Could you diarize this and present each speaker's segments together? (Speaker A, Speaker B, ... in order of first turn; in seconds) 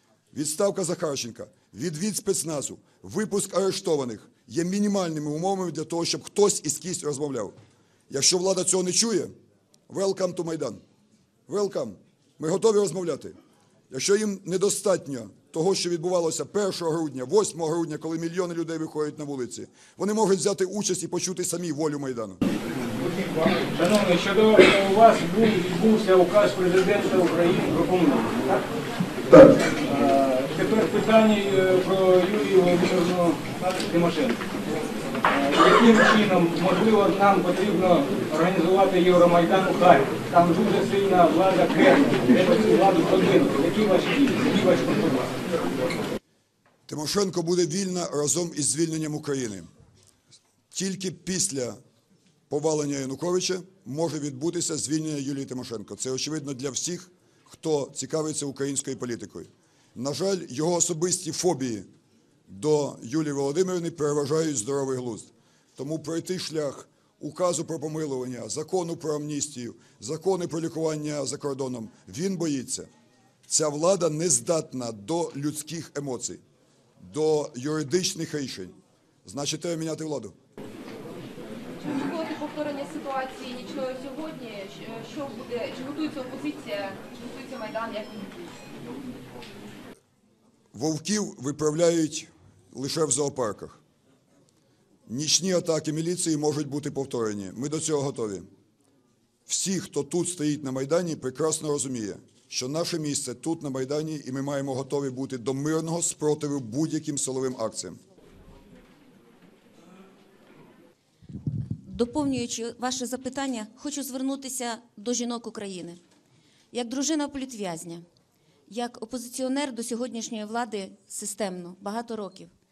Speaker A: 0.3-7.5, 8.1-9.3, 9.9-10.8, 11.5-13.3, 13.9-22.4, 46.9-49.7, 50.7-51.8, 52.5-61.9, 62.5-72.9, 73.5-76.4, 77.0-78.7, 79.3-80.3, 90.7-93.8, 95.1-98.5, 99.5-108.0
Speaker B: 23.1-28.6, 29.7-34.4, 35.3-45.3
Speaker C: 81.8-88.4
Speaker D: 111.8-116.0, 116.7-118.0, 118.7-122.5